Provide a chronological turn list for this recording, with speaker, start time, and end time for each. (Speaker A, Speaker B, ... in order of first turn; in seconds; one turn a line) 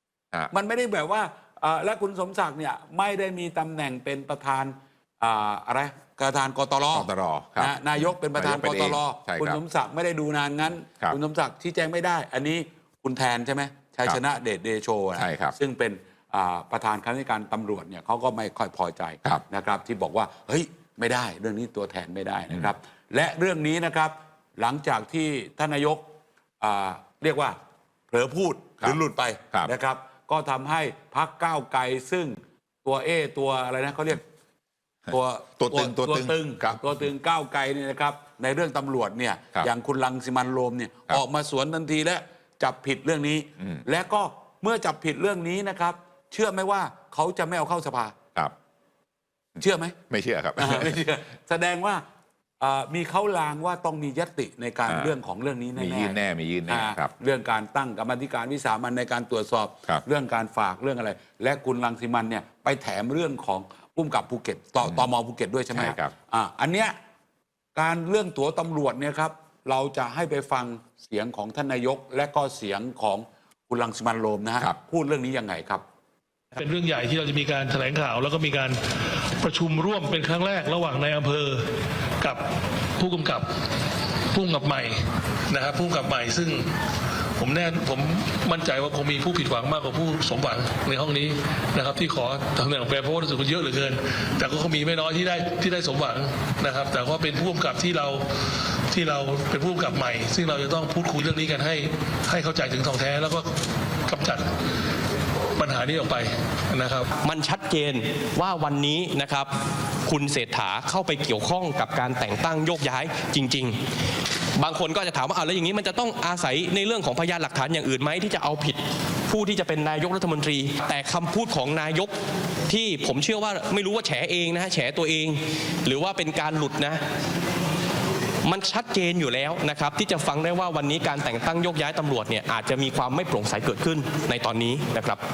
Speaker A: 0.5-26.0
Speaker B: 6.9-9.6
Speaker B: 15.2-15.6
Speaker A: 26.6-27.6
Speaker A: 28.1-34.2
Speaker A: 35.1-48.2
Speaker B: 35.6-36.9
Speaker A: 49.6-50.0
Speaker B: 50.1-51.0
Speaker A: 50.6-52.0
Speaker A: 52.6-67.0
Speaker B: 54.9-55.2
Speaker B: 55.8-57.1
Speaker B: 65.7-66.1
Speaker A: 67.8-75.8
Speaker C: 76.6-78.8
Speaker C: 79.4-81.7
Speaker C: 83.0-83.5
Speaker C: 84.3-86.7
Speaker C: 87.4-98.2
Speaker C: 98.9-103.5
Speaker C: 104.1-104.5
Speaker C: 105.6-107.1
Speaker D: 107.2-109.5
Speaker D: 110.1-113.8
Speaker D: 114.6-122.1
Speaker D: 122.7-127.0
Speaker D: 128.4-135.2